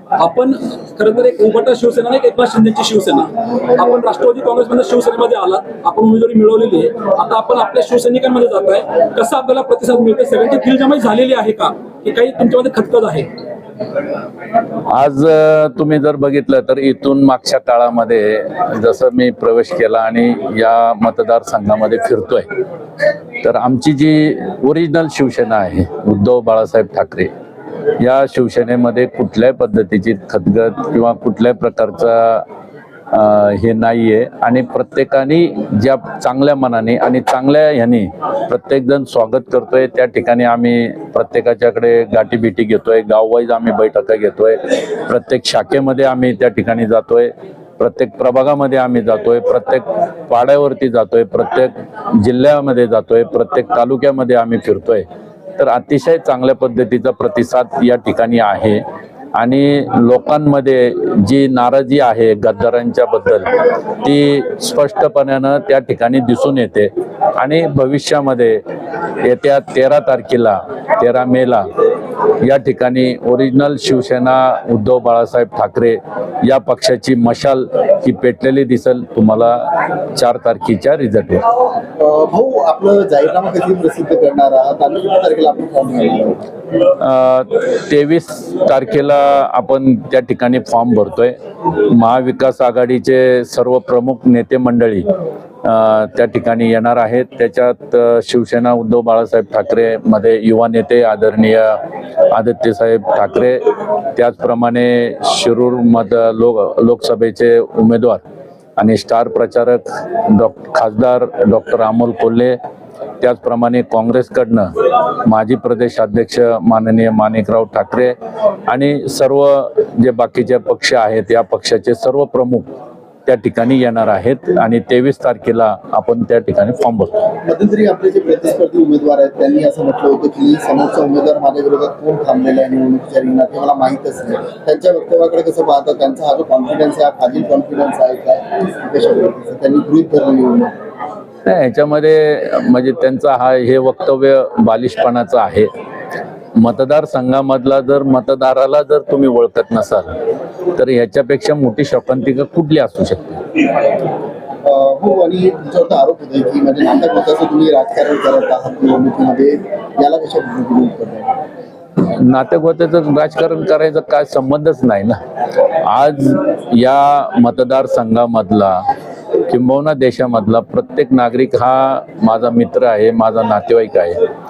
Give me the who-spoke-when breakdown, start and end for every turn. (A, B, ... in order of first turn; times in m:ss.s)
0:00.2-0:13.3 A
0:14.9-0:22.5 B
0:23.4-0:27.3 B
0:28.0-0:32.4 B
0:33.1-0:55.0 B
0:55.6-0:58.8 B
0:59.4-1:03.5 B
1:04.0-1:08.6 B
1:09.2-1:11.6 B
1:12.4-1:21.4 B
1:22.0-1:26.4 C
1:27.0-1:35.1 B
1:35.6-1:41.8 B
1:42.3-1:43.6 B
1:44.1-1:48.2 B
1:48.8-1:52.6 B
1:53.2-1:54.7 B
1:55.2-1:58.2 B
1:58.7-2:02.7 B
2:03.3-2:07.1 B
2:07.4-2:20.7 C
2:21.5-2:25.7 B
2:26.6-2:30.1 B
2:30.8-2:33.4 B
2:34.6-2:41.4 C
2:42.0-2:45.2 B
2:45.8-2:48.8 B
2:49.5-2:54.2 B